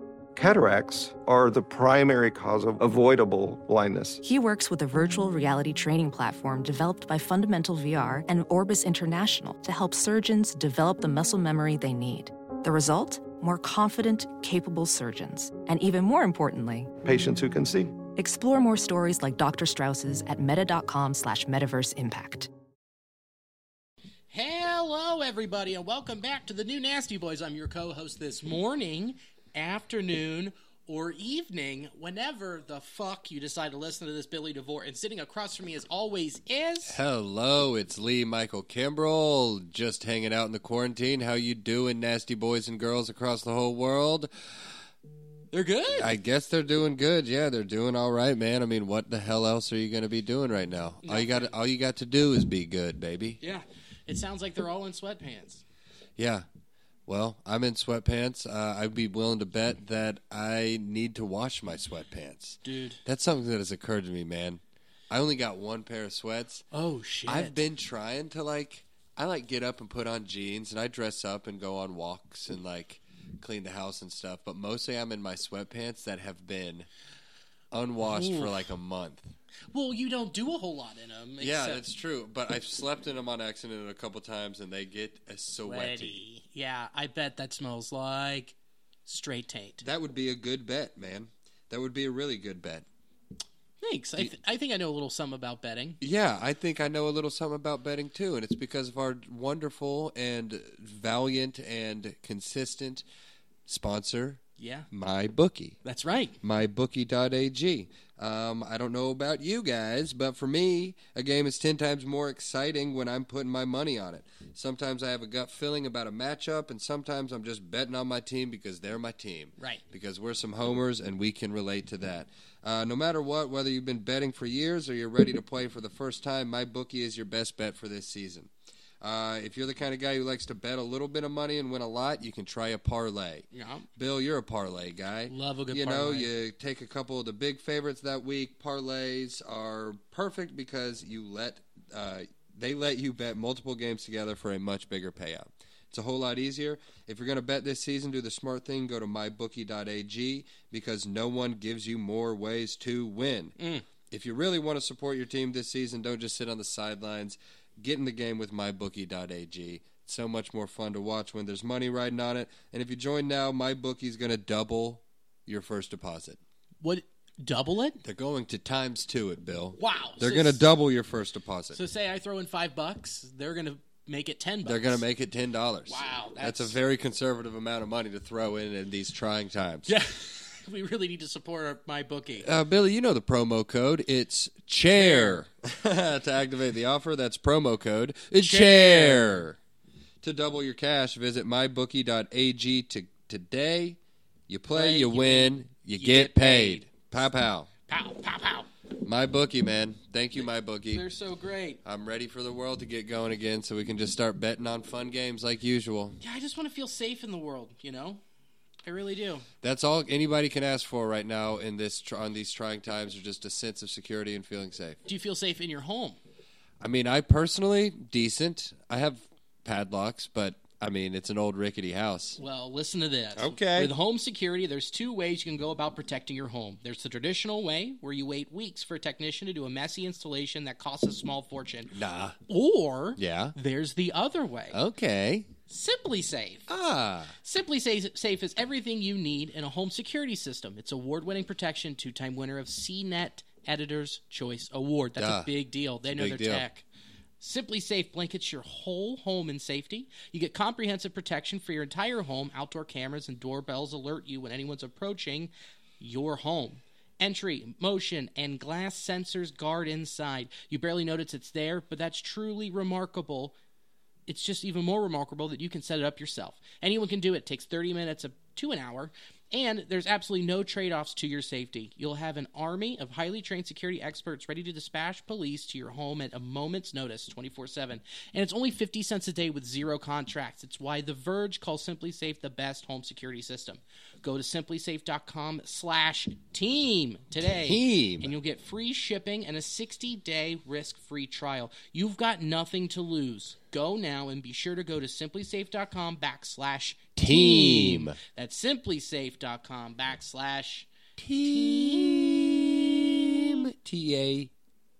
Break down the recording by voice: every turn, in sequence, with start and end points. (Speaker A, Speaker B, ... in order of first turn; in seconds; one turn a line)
Speaker A: 0.3-4.2
Speaker B: 4.2-16.9
Speaker A: 17.0-18.0
Speaker B: 18.1-22.5
Speaker C: 24.3-37.0
Speaker D: 36.9-44.7
Speaker C: 45.5-46.1
Speaker D: 45.9-53.4
Speaker C: 51.0-51.5
Speaker C: 53.4-55.6
Speaker D: 56.2-56.5
Speaker D: 57.1-66.6
Speaker C: 62.6-63.0
Speaker C: 66.7-67.6
Speaker D: 67.2-76.9
Speaker D: 77.7-79.3
Speaker C: 78.0-78.6
Speaker C: 79.7-81.8
Speaker D: 81.4-86.2
Speaker C: 85.6-88.5
Speaker C: 89.0-89.8
Speaker D: 89.8-92.8
Speaker C: 93.8-96.0
Speaker D: 96.0-103.0
Speaker D: 103.7-105.8
Speaker C: 104.6-104.9
Speaker C: 105.8-106.4
Speaker D: 106.4-128.5
Speaker C: 119.6-119.8
Speaker D: 129.0-166.4
Speaker C: 133.5-133.9
Speaker C: 135.3-136.3
Speaker C: 153.6-153.8
Speaker C: 166.8-168.0
Speaker D: 168.0-171.8
Speaker C: 169.8-170.7
Speaker C: 171.7-175.0
Speaker D: 174.6-179.9
Speaker C: 175.9-176.8
Speaker C: 179.8-182.5
Speaker D: 182.4-189.6
Speaker C: 184.9-185.4
Speaker C: 188.4-189.4
Speaker D: 190.2-197.7
Speaker C: 194.7-196.9
Speaker C: 197.9-198.7
Speaker D: 199.0-201.1
Speaker C: 200.9-201.8
Speaker D: 201.8-206.2
Speaker C: 206.2-208.2
Speaker C: 208.8-209.5
Speaker D: 209.6-215.0
Speaker C: 215.1-216.2
Speaker D: 216.8-222.4
Speaker C: 222.4-231.9
Speaker D: 223.3-223.9
Speaker D: 231.9-232.4
Speaker C: 232.5-234.8
Speaker D: 233.2-233.5
Speaker D: 234.7-235.5
Speaker C: 235.7-236.7
Speaker D: 236.7-237.3
Speaker C: 237.4-246.8
Speaker D: 245.2-245.5
Speaker D: 246.1-246.7
Speaker C: 247.4-263.6
Speaker C: 264.3-302.4
Speaker D: 287.4-288.3
Speaker D: 297.2-298.2
Speaker D: 301.2-304.5